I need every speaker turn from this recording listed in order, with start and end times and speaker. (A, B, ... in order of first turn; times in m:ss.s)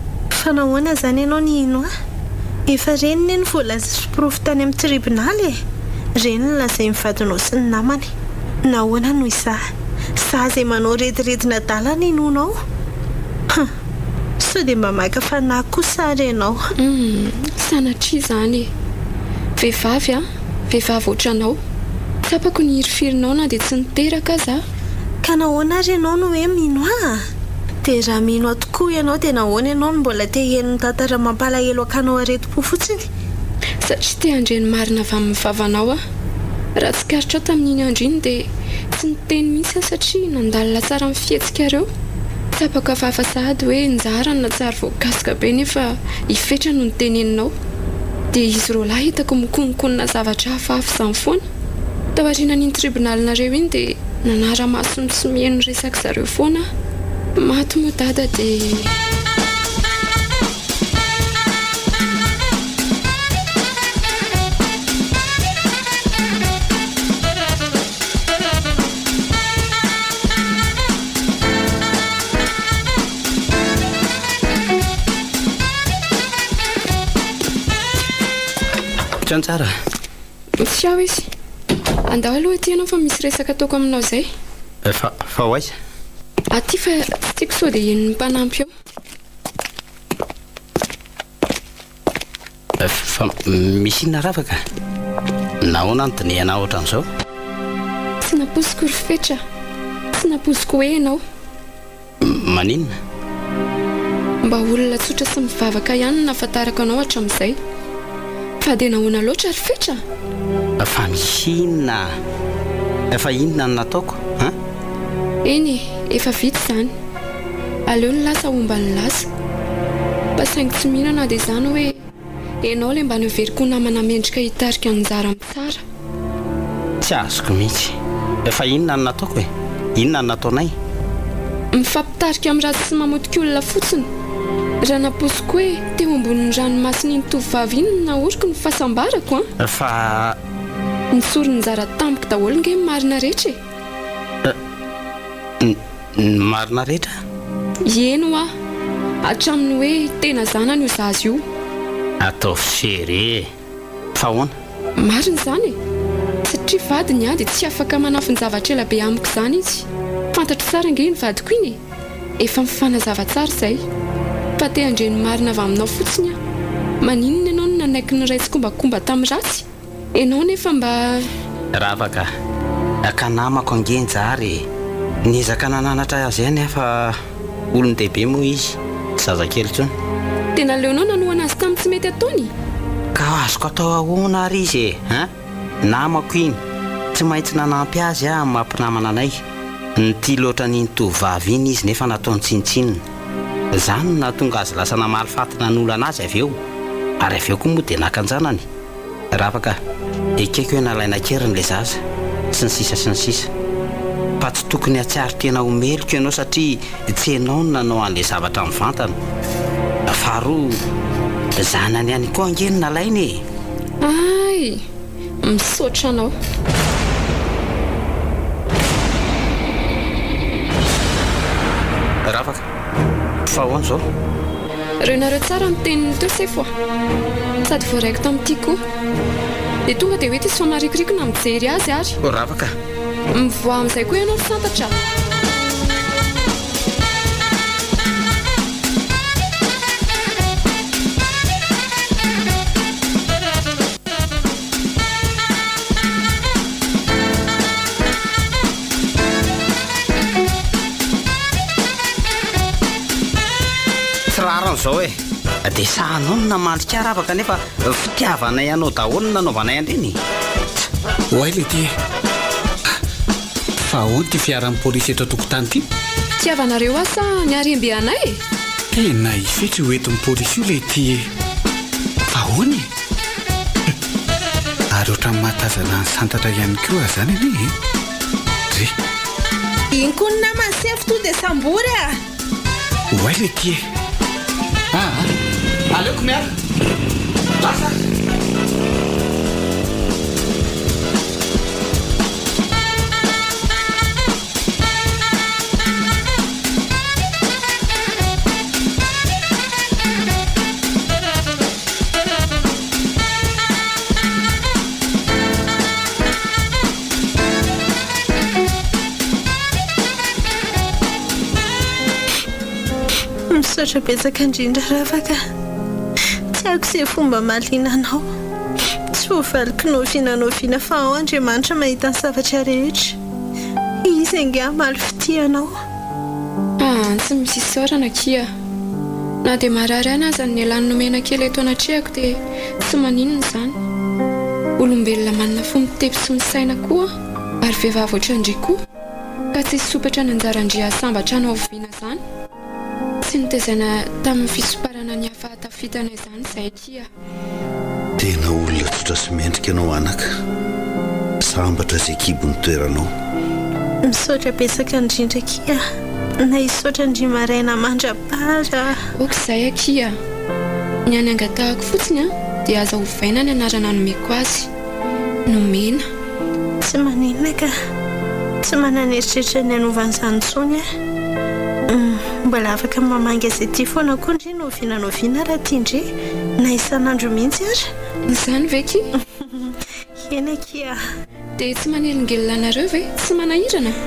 0:00.4-0:01.9 A
0:02.7-0:05.6 A
0:06.2-0:08.1 A
0:08.7-0:12.6 A
0:14.4-0:16.7 A
0:16.8-0:18.7 B
0:19.6-0:21.6 B
0:22.2-0:24.6 B
0:25.2-0:27.3 A
0:27.8-0:33.0 A
0:33.8-0:36.0 B
0:36.8-0:41.9 B
0:42.6-0:47.6 B
0:48.3-0:51.4 B
0:52.1-0:56.7 B
0:57.4-0:58.9 B
1:19.2-1:19.7 C
1:20.6-1:21.3 B
1:22.1-1:24.3 B
1:24.8-1:25.7 C
1:26.5-1:28.7 B
1:32.8-1:34.6 C
1:35.6-1:37.1 C
1:38.2-1:39.4 B
1:40.2-1:41.2 B
1:42.2-1:42.9 C
1:44.4-1:47.6 B
1:48.6-1:50.0 B
1:50.8-1:52.1 C
1:53.1-1:54.6 C
1:55.4-1:56.9 B
1:57.9-1:59.3 B
2:00.4-2:02.0 B
2:02.6-2:05.8 B
2:07.0-2:10.8 C
2:11.7-2:14.1 B
2:14.8-2:19.5 B
2:19.6-2:20.4 C
2:21.1-2:23.6 B
2:25.6-2:27.2 C
2:27.8-2:28.5 B
2:29.2-2:31.4 B
2:32.2-2:33.5 C
2:34.2-2:34.5 C
2:35.0-2:35.8 B
2:36.4-2:41.8 B
2:42.4-2:43.8 B
2:44.6-2:46.4 B
2:47.0-2:51.3 B
2:51.7-2:52.3 C
2:53.0-2:54.7 C
2:55.2-2:57.2 C
2:57.7-2:59.9 C
3:00.5-3:02.5 B
3:03.2-3:05.3 C
3:05.8-3:06.6 C
3:07.1-3:09.4 C
3:10.0-3:13.0 C
3:13.7-3:16.6 C
3:17.2-3:18.6 C
3:19.3-3:19.8 C
3:20.4-3:22.0 C
3:22.5-3:23.5 C
3:24.4-3:29.2 C
3:30.1-3:30.8 C
3:31.5-3:33.4 C
3:34.0-3:34.8 B
3:35.4-3:36.3 B
3:42.2-3:42.6 C
3:43.5-3:44.1 C
3:45.0-3:46.7 B
3:47.6-3:48.8 B
3:49.8-3:52.2 B
3:52.2-3:52.7 C
3:53.3-3:55.0 B
4:14.3-4:20.2 C
4:21.3-4:21.9 D
4:23.8-4:25.9 D
4:26.4-4:28.4 B
4:28.9-4:31.3 D
4:32.3-4:32.9 D
4:34.9-4:37.7 D
4:39.9-4:42.2 A
4:43.1-4:43.8 D
4:44.9-4:45.3 D
4:45.9-4:46.5 D
4:47.6-4:48.0 D
5:13.5-5:15.4 A
5:16.5-5:18.3 A
5:19.1-5:23.2 A
5:24.0-5:25.7 A
5:26.8-5:28.5 B
5:29.4-5:33.8 B
5:34.8-5:38.8 B
5:39.5-5:42.2 B
5:43.2-5:47.1 B
5:48.2-5:50.4 E
5:51.4-5:53.1 E
5:54.0-5:55.8 A
5:56.4-5:59.0 A
5:59.2-6:00.2 B
6:01.1-6:04.7 B
6:05.5-6:06.1 B
6:06.8-6:07.7 A
6:08.6-6:10.9 A
6:11.9-6:17.9 A
6:18.3-6:19.1 B
6:19.4-6:21.0 A
6:21.6-6:24.0 B